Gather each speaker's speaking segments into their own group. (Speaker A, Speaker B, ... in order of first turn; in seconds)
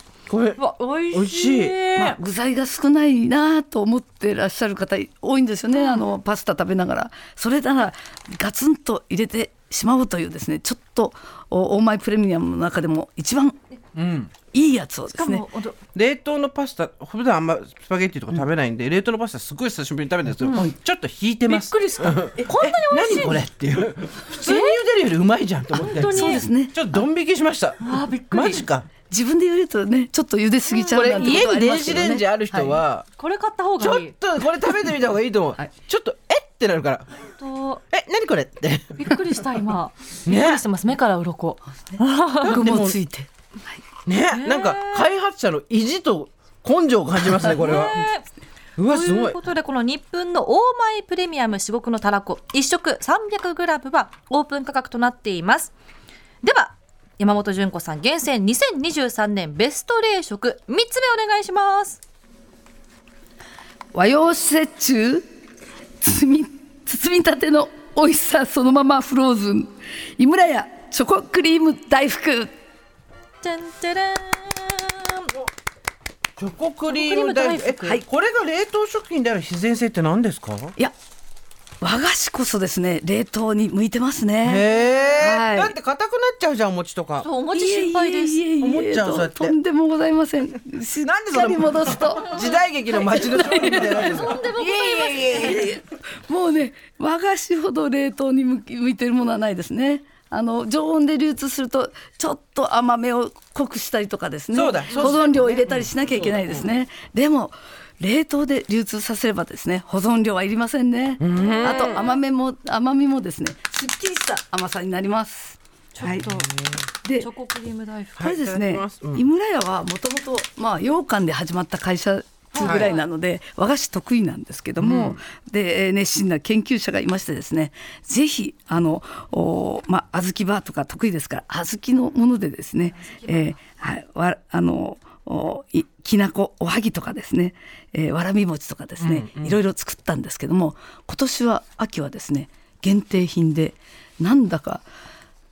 Speaker A: 0.3-1.8, 13.9-14.3, 15.9-28.9, 30.9-33.0, 33.8-37.1, 37.9-39.1, 40.2-40.6, 42.4-43.0, 44.0-48.0, 48.8-49.4, 76.4-80.7, 84.4-87.3, 88.6-89.5, 91.0-95.7, 104.5-106.6, 111.2-112.1, 116.0-116.5, 118.2-119.2, 122.6-122.9, 124.8-125.2, 139.0-139.6
Speaker B: 0.6-2.2, 5.7-6.0, 15.1-15.8, 20.4-20.7, 21.5-23.4, 24.4-24.8, 25.7-26.4, 27.8-28.6, 30.7-31.4, 33.2-34.1, 37.2-37.8, 39.0-42.6, 44.3-45.1, 47.4-48.2, 48.8-55.7, 56.4-62.0, 73.4-75.3, 76.9-78.0, 84.8-85.1, 87.2-88.5, 92.3-92.6, 93.5-95.7, 104.9-105.2, 111.4-112.1, 115.9-116.5, 117.0-118.3, 122.5-123.0, 132.9-133.5
Speaker C: 1.9-13.6, 14.5-15.4, 25.8-27.0, 29.1-32.8, 42.4-43.8, 63.9-65.3, 66.0-72.5, 81.8-84.7, 85.2-85.7, 87.5-94.3, 95.3-116.2, 117.0-117.3, 118.2-144.8